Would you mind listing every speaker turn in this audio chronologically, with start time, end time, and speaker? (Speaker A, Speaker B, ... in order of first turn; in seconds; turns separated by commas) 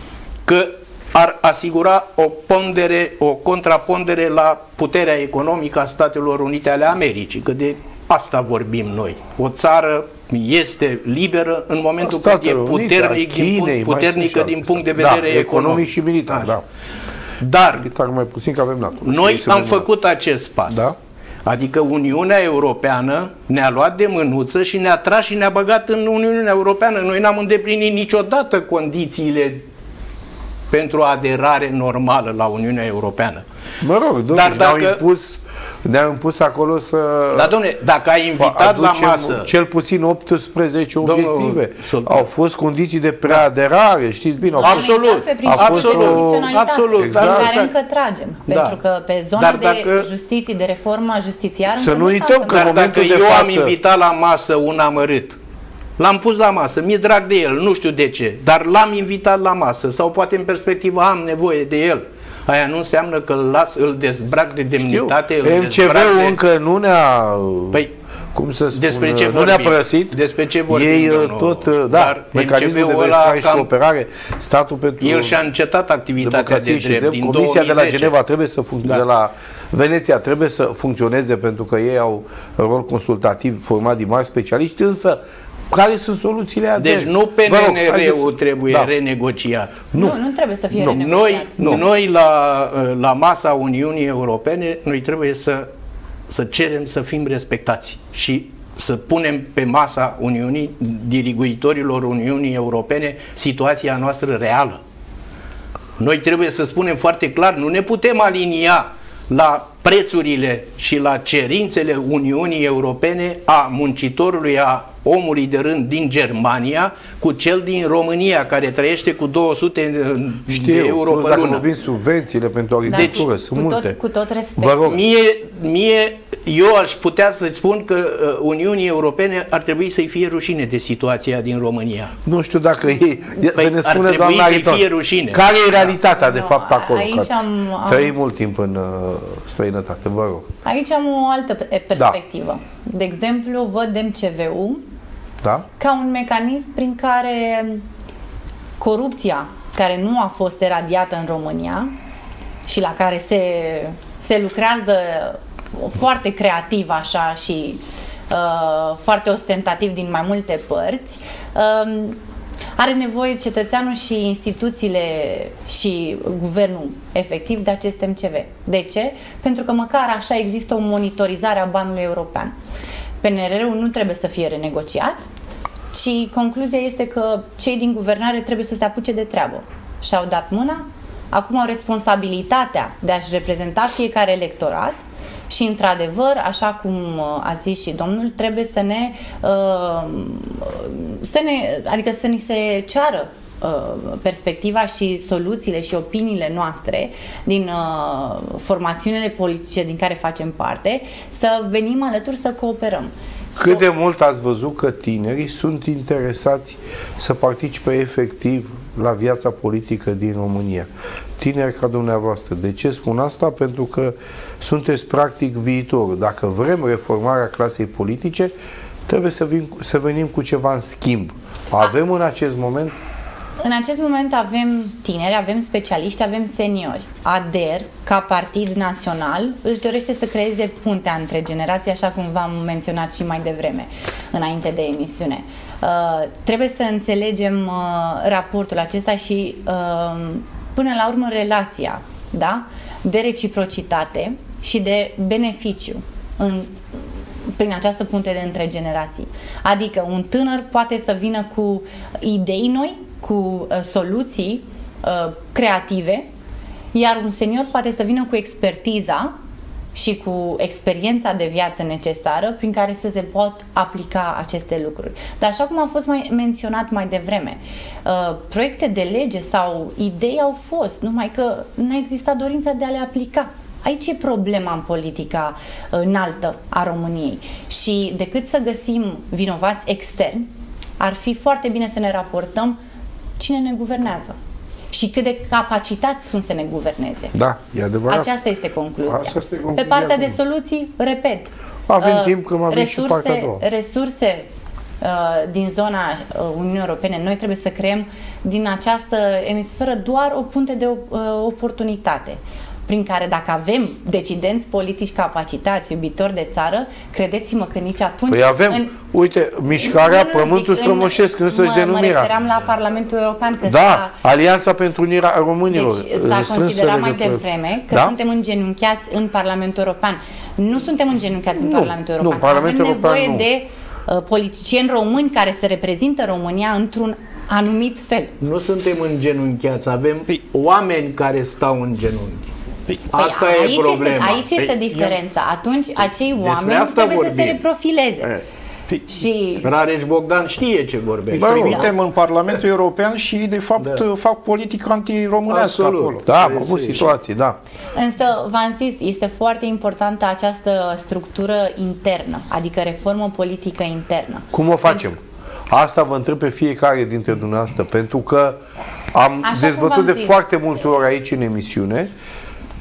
Speaker A: 0.5-16.6, Speaker B: 12.0-16.6, Speaker A: 17.4-17.9, Speaker B: 17.7-19.9, Speaker A: 19.0-20.9, Speaker B: 20.7-21.0, Speaker A: 21.4-29.6, Speaker A: 30.7-33.5, Speaker B: 33.8-37.5, Speaker A: 34.3-35.0, Speaker A: 37.3-39.5, Speaker B: 38.4-47.6, Speaker A: 41.0-42.3, Speaker C: 44.5-52.7, Speaker A: 44.6-47.7, Speaker A: 48.5-48.8, Speaker A: 49.4-50.1, Speaker B: 51.8-53.8, Speaker A: 52.5-55.4, Speaker A: 56.0-66.4, Speaker B: 64.8-67.8, Speaker B: 68.3-75.4, Speaker A: 68.7-73.7, Speaker A: 75.0-78.1, Speaker B: 76.2-88.9, Speaker A: 86.8-89.9, Speaker C: 90.0-91.8, Speaker B: 90.7-91.0, Speaker A: 90.9-95.7, Speaker A: 96.3-104.8, Speaker A: 106.0-121.7, Speaker B: 120.5-124.0, Speaker C: 122.9-124.8, Speaker B: 124.6-125.0, Speaker A: 124.8-132.1, Speaker B: 132.2-140.5, Speaker A: 133.5-135.5, Speaker C: 136.1-138.2, Speaker C: 140.7-144.8, Speaker B: 145.4-145.7, Speaker C: 145.8-147.8, Speaker C: 148.8-151.9, Speaker C: 152.7-162.2, Speaker C: 162.8-172.5, Speaker C: 173.2-175.3, Speaker C: 175.9-203.8, Speaker B: 203.6-218.5, Speaker B: 219.1-223.0, Speaker C: 223.6-256.3, Speaker C: 256.9-259.3, Speaker C: 259.9-280.5, Speaker C: 281.0-282.8, Speaker C: 283.4-284.4, Speaker C: 284.9-287.3, Speaker B: 287.3-288.3, Speaker C: 288.1-294.5, Speaker B: 289.1-290.4, Speaker B: 291.9-293.6, Speaker C: 295.0-308.9, Speaker B: 308.3-312.3, Speaker C: 309.8-314.1, Speaker B: 313.7-318.1, Speaker C: 315.7-328.4, Speaker B: 321.6-323.5, Speaker A: 328.4-332.5, Speaker A: 333.1-334.8, Speaker C: 333.1-338.3, Speaker D: 334.9-335.2, Speaker A: 336.4-337.6, Speaker D: 338.9-339.6, Speaker C: 339.1-339.6, Speaker A: 339.6-341.9, Speaker B: 341.3-341.9, Speaker D: 341.4-346.2, Speaker A: 343.8-344.1, Speaker A: 345.5-347.1, Speaker B: 346.3-347.6, Speaker C: 347.9-355.1, Speaker B: 354.5-358.6, Speaker B: 359.1-362.1, Speaker C: 359.4-360.4